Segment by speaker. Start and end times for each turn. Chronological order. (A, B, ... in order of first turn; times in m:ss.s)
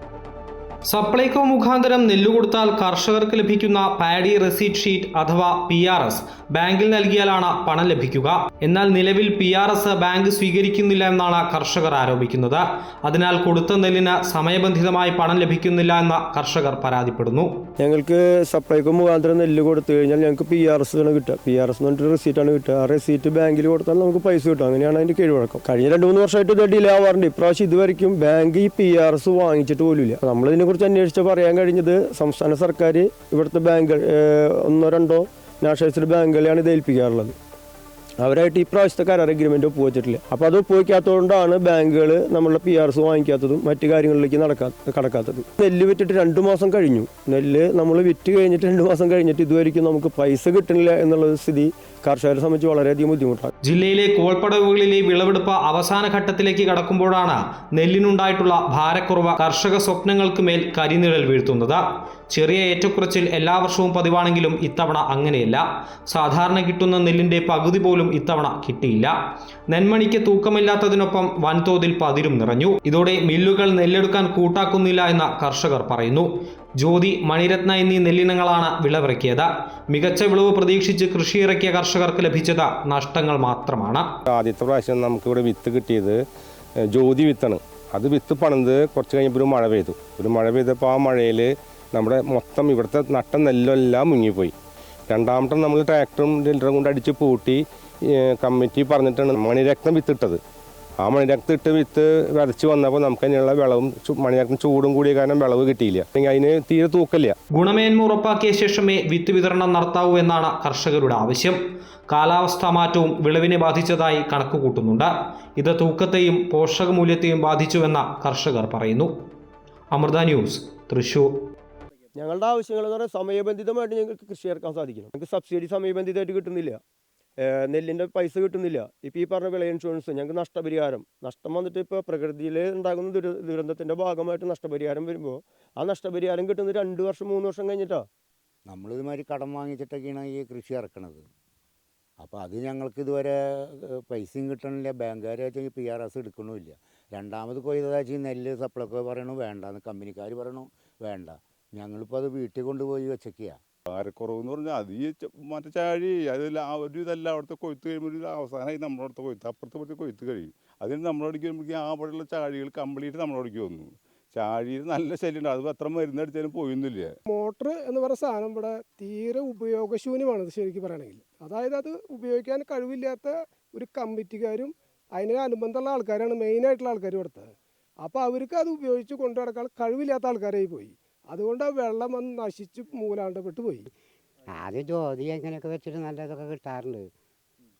0:00.9-0:17.5 A
0:17.8-0:37.4 B
0:38.2-0:53.5 B
0:53.6-1:09.2 A
1:09.7-1:24.1 A
1:24.3-1:26.2 C
1:26.9-1:34.5 C
1:35.1-1:37.6 C
1:38.3-1:40.4 C
1:41.0-1:47.4 C
1:47.5-1:59.1 A
1:59.9-2:01.3 A
2:02.2-2:06.8 B
2:07.4-2:18.1 B
2:18.7-2:21.3 D
2:22.2-2:33.6 D
2:33.9-2:47.1 E
2:47.3-3:03.9 F
3:04.5-3:07.1 G